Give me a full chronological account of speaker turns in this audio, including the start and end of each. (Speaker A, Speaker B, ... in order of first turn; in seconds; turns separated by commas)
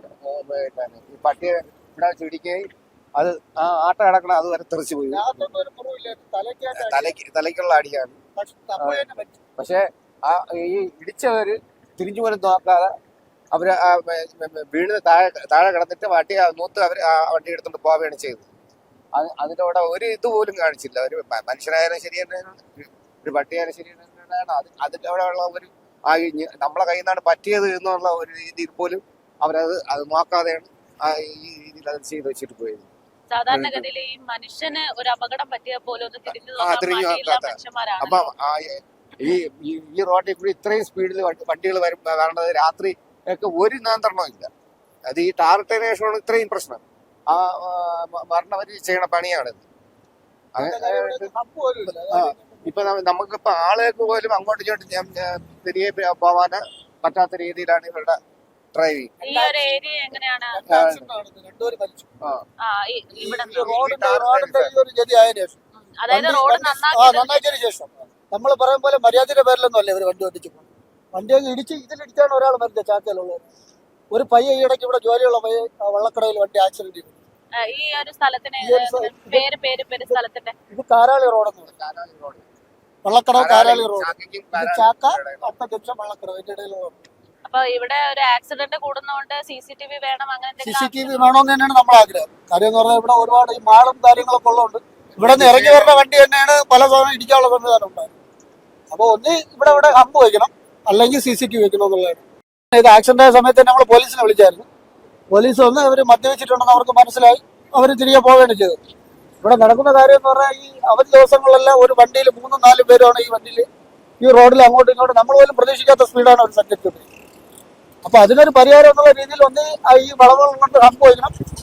Speaker A: 0.2-5.5, Speaker B: 5.1-7.2, Speaker A: 6.8-8.2, Speaker B: 8.4-9.4, Speaker A: 8.8-9.0, Speaker A: 9.6-12.9, Speaker A: 13.5-18.5, Speaker A: 19.1-32.9, Speaker C: 33.3-38.3, Speaker A: 33.5-33.9, Speaker A: 36.3-44.5, Speaker A: 45.1-49.6, Speaker A: 50.5-51.3, Speaker B: 50.6-52.7, Speaker A: 51.9-58.2, Speaker A: 58.7-59.1, Speaker C: 59.2-60.6, Speaker B: 59.2-62.1, Speaker A: 60.7-61.0, Speaker C: 62.6-63.8, Speaker B: 63.2-65.6, Speaker A: 63.2-64.7, Speaker C: 66.0-67.6, Speaker B: 66.1-73.4, Speaker B: 74.1-77.1, Speaker C: 77.6-80.5, Speaker B: 78.6-79.4, Speaker B: 80.7-81.7, Speaker A: 81.7-82.5, Speaker B: 83.0-87.0, Speaker A: 83.3-85.5, Speaker C: 87.5-91.3, Speaker B: 90.6-98.1, Speaker A: 95.2-96.0, Speaker B: 98.9-102.2, Speaker B: 102.7-104.7, Speaker B: 105.3-108.8, Speaker B: 109.4-113.7, Speaker B: 114.2-117.0, Speaker B: 118.0-121.3